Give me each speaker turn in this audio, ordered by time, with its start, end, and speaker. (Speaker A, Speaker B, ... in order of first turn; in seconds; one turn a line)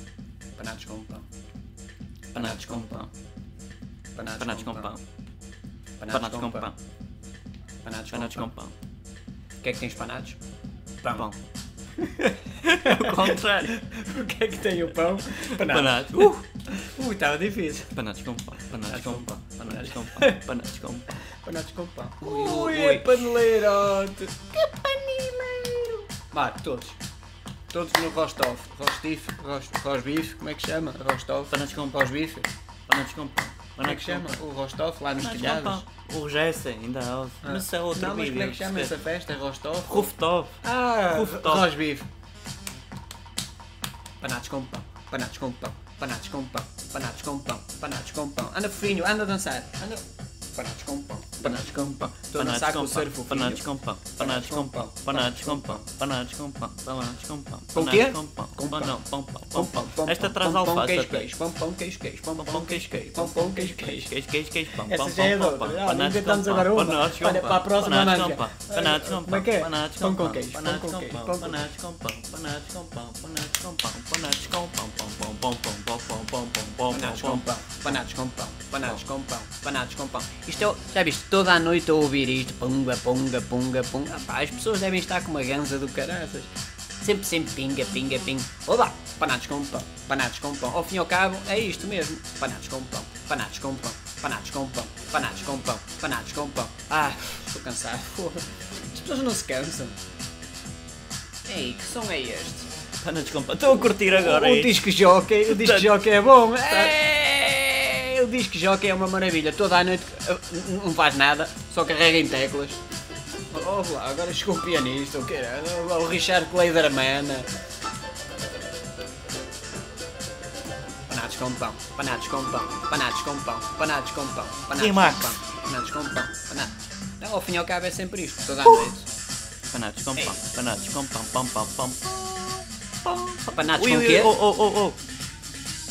Speaker A: 0.6-1.2
Speaker A: 2.3-3.1
Speaker B: 2.3-3.1
Speaker A: 4.1-4.9
Speaker B: 4.4-5.0
Speaker A: 6.0-6.7
Speaker B: 6.1-6.8
Speaker A: 7.8-8.5
Speaker B: 8.1-8.7
Speaker A: 9.6-10.4
Speaker A: 11.0-11.3
Speaker B: 11.1-11.4
Speaker A: 12.0-18.0
Speaker B: 12.6-13.8
Speaker B: 15.3-16.4
Speaker B: 17.9-21.1
Speaker A: 18.8-20.4
Speaker A: 21.4-27.0
Speaker B: 22.2-23.4
Speaker A: 27.7-32.5
Speaker B: 31.5-32.0
Speaker B: 32.9-34.4
Speaker A: 33.8-35.8
Speaker B: 35.2-38.9
Speaker A: 37.4-42.1
Speaker B: 39.9-41.7
Speaker A: 44.2-50.0
Speaker A: 50.5-53.6
Speaker B: 51.4-61.3
Speaker A: 54.2-55.9
Speaker A: 57.7-59.0
Speaker A: 59.5-64.1
Speaker B: 62.4-77.5
Speaker A: 64.7-71.6
Speaker A: 76.9-100.0
Speaker A: 101.5-102.7
Speaker B: 103.0-104.8
Speaker A: 104.1-112.8
Speaker B: 105.4-106.0
Speaker A: 113.5-117.5
Speaker A: 121.1-129.1
Speaker B: 124.8-125.3
Speaker B: 129.7-135.0
Speaker A: 133.5-134.3